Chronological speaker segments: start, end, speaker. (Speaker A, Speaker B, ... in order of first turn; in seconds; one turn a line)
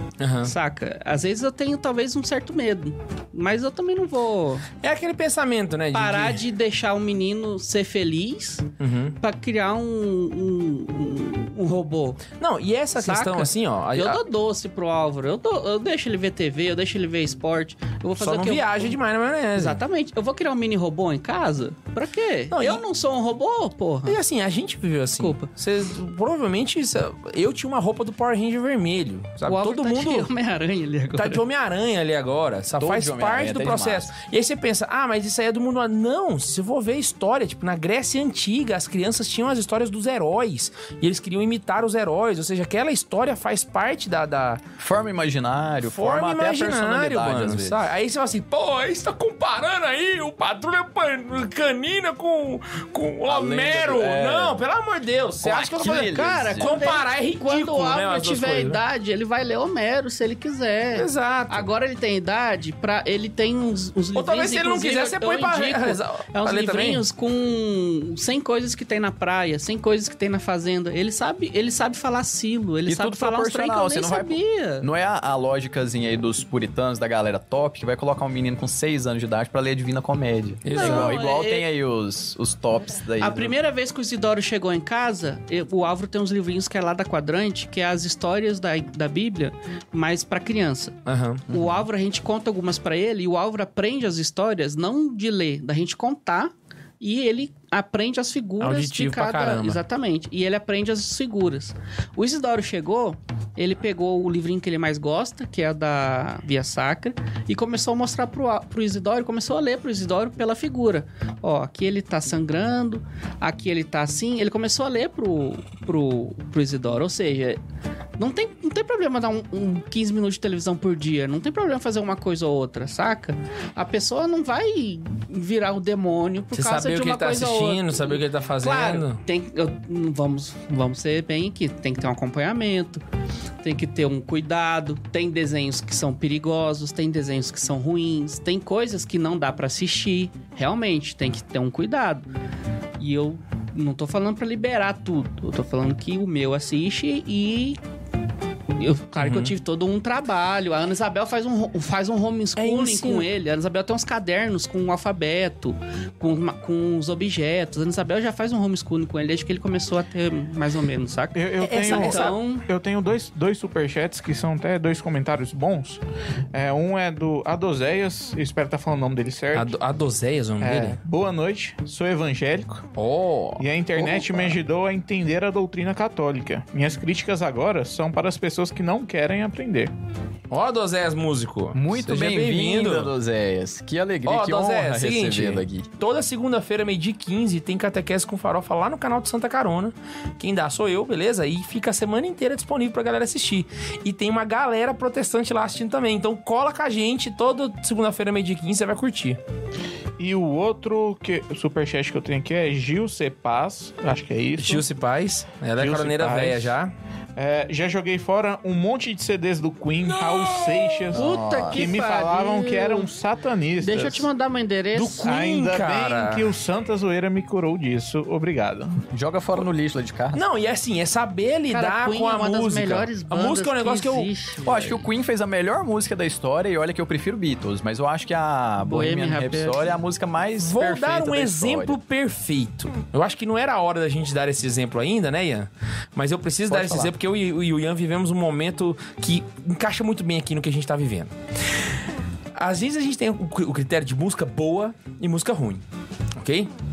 Speaker A: 0.2-0.5
Speaker B: 0.4-4.7
Speaker A: 4.8-6.4
Speaker B: 5.9-12.2
Speaker A: 8.8-9.2
Speaker A: 12.4-14.2
Speaker B: 13.0-19.0
Speaker A: 18.2-19.8
Speaker B: 19.6-24.2
Speaker A: 22.5-22.8
Speaker A: 24.1-30.3
Speaker B: 25.2-25.5
Speaker B: 29.5-31.4
Speaker A: 31.1-44.6
Speaker C: 32.8-34.1
Speaker C: 44.8-47.9
Speaker A: 45.8-58.8
Speaker C: 53.3-54.6
Speaker C: 55.4-56.7
Speaker B: 55.8-74.9
Speaker A: 61.0-61.7
Speaker A: 64.2-67.0
Speaker C: 72.9-83.5
Speaker A: 80.6-81.2
Speaker B: 80.8-81.7
Speaker B: 83.2-117.6
Speaker A: 91.1-91.5
Speaker A: 98.6-99.8
Speaker B: 118.2-133.0
Speaker A: 126.5-129.2
Speaker B: 133.6-142.3
Speaker B: 143.0-147.8
Speaker B: 148.8-162.7
Speaker A: 149.2-149.5
Speaker A: 152.6-153.3
Speaker D: 161.3-166.0
Speaker A: 161.6-162.4
Speaker D: 166.5-169.7
Speaker A: 169.5-171.0
Speaker D: 170.6-172.8
Speaker A: 173.0-174.4
Speaker D: 173.6-179.9
Speaker C: 174.2-174.5
Speaker A: 180.5-183.1
Speaker C: 181.7-185.9
Speaker A: 184.2-199.4
Speaker D: 200.2-204.8
Speaker A: 204.6-206.9
Speaker D: 205.8-206.8
Speaker D: 207.4-214.3
Speaker A: 210.1-211.1
Speaker C: 211.1-211.9
Speaker B: 211.1-213.1
Speaker B: 213.8-215.3
Speaker A: 214.9-216.5
Speaker D: 215.2-219.0
Speaker C: 219.1-220.4
Speaker A: 220.3-224.3
Speaker B: 221.7-225.0
Speaker C: 224.6-232.0
Speaker B: 228.8-230.0
Speaker A: 230.6-241.3
Speaker C: 236.7-237.1
Speaker A: 242.6-245.8
Speaker A: 246.4-246.7